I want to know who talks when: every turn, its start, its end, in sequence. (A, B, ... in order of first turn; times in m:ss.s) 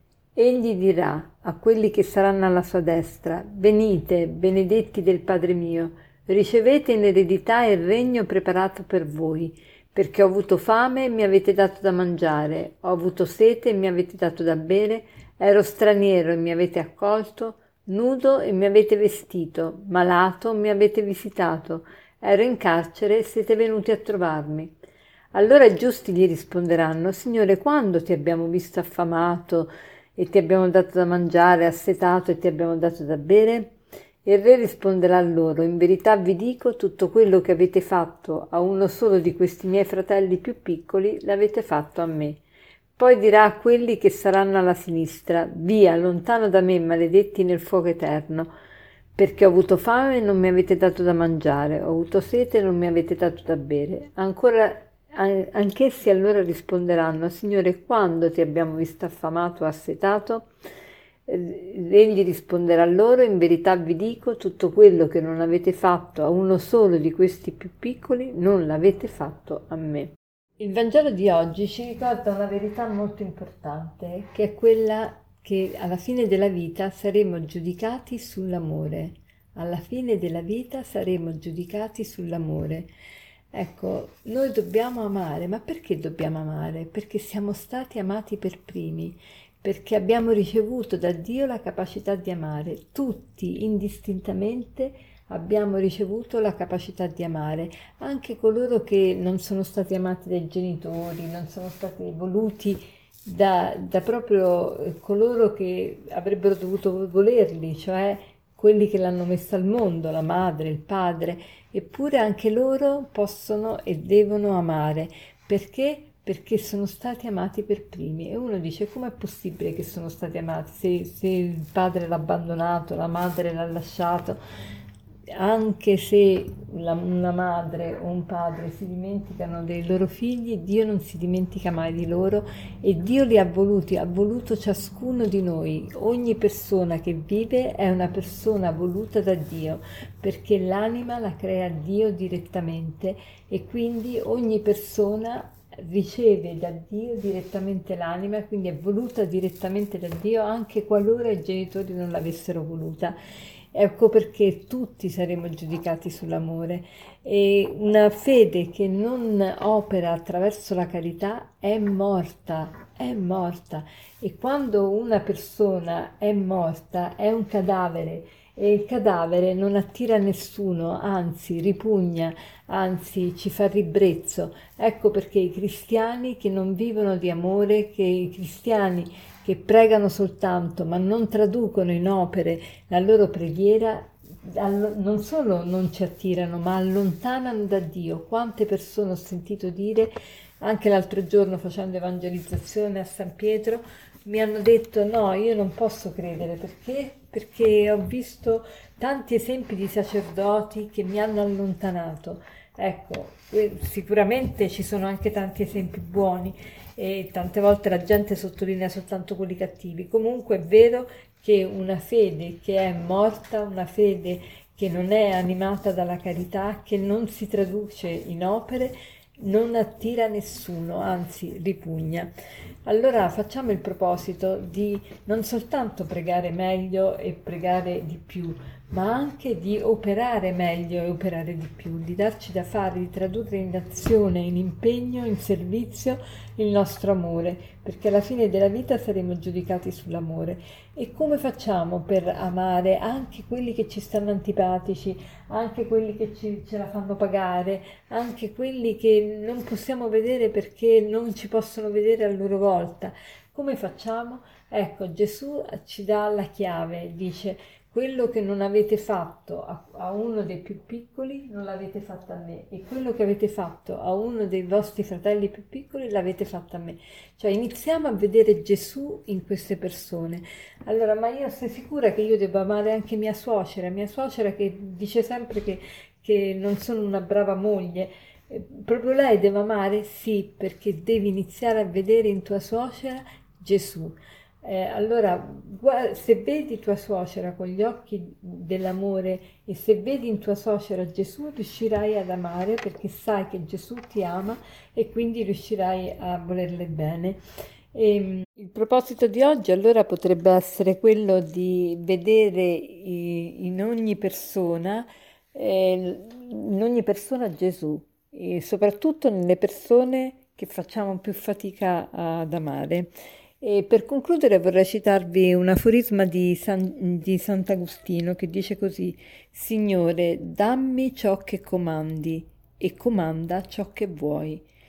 0:00.3-0:24.8 A
0:25.3-0:33.7 A
0:34.2-0:42.4 A
0:43.0-0:48.5 A
0:49.1-1:00.5 A
1:01.3-1:22.9 A
1:23.5-2:04.4 A
2:05.3-2:33.2 A
2:33.7-3:42.3 A
3:42.8-4:57.4 A
4:57.9-5:24.6 A